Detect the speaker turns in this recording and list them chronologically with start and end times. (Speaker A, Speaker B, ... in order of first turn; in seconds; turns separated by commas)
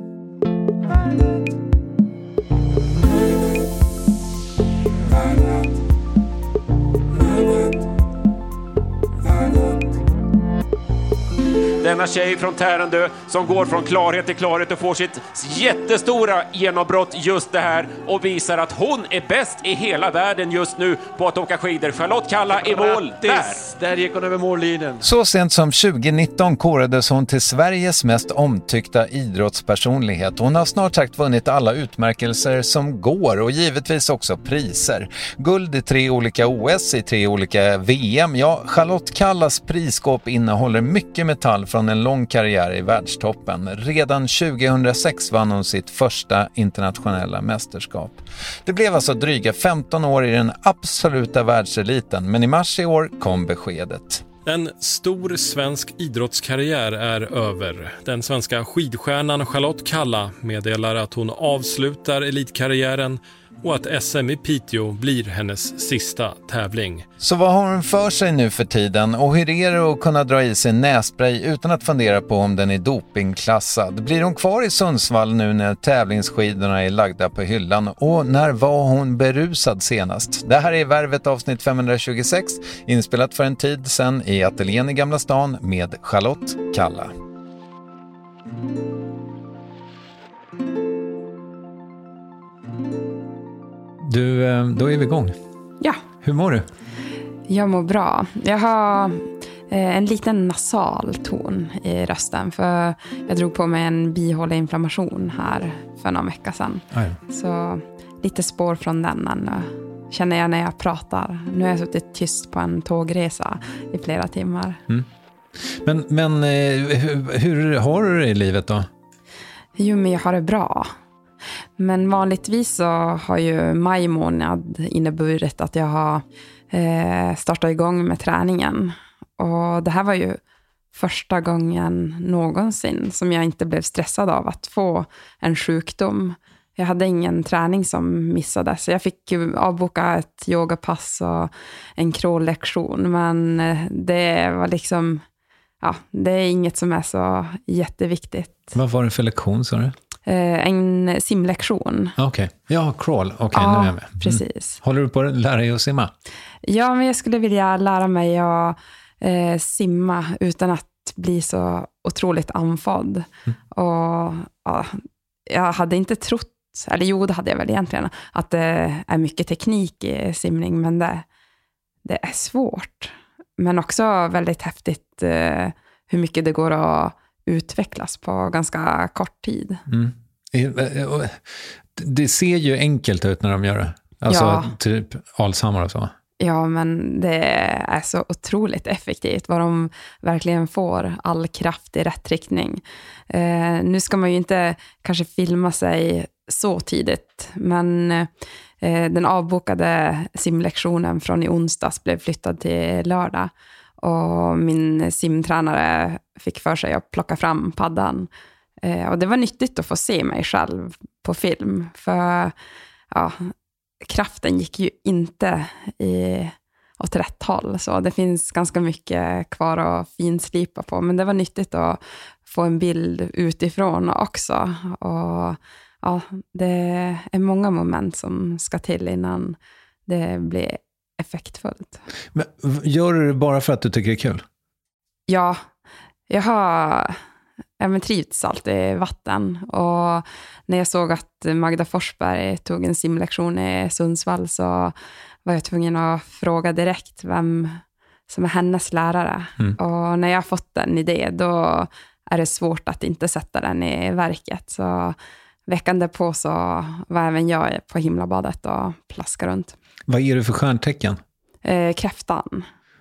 Speaker A: 11.8-23.7, Speaker B: 22.6-24.9, Speaker C: 25.0-54.2, Speaker D: 54.5-67.0, Speaker C: 67.2-87.2, Speaker C: 94.0-95.4, Speaker C: 96.2-96.7, Speaker E: 97.5-114.8, Speaker C: 106.9-107.2, Speaker C: 115.6-118.9, Speaker E: 119.8-120.9, Speaker E: 121.8-130.4, Speaker E: 130.9-145.2, Speaker E: 145.8-148.7, Speaker C: 148.7-149.9, Speaker E: 150.3-152.2, Speaker C: 152.2-156.1, Speaker E: 153.5-154.8, Speaker E: 156.7-171.2, Speaker E: 172.1-179.8, Speaker C: 179.9-186.1, Speaker E: 184.3-184.7, Speaker E: 186.4-198.3, Speaker E: 198.8-208.3, Speaker E: 208.8-212.5, Speaker E: 213.1-213.5, Speaker E: 214.0-232.0, Speaker C: 232.3-234.4, Speaker E: 235.3-235.6, Speaker E: 236.3-237.2, Speaker E: 237.8-244.9, Speaker E: 245.5-259.8, Speaker C: 260.1-261.2, Speaker E: 261.6-262.7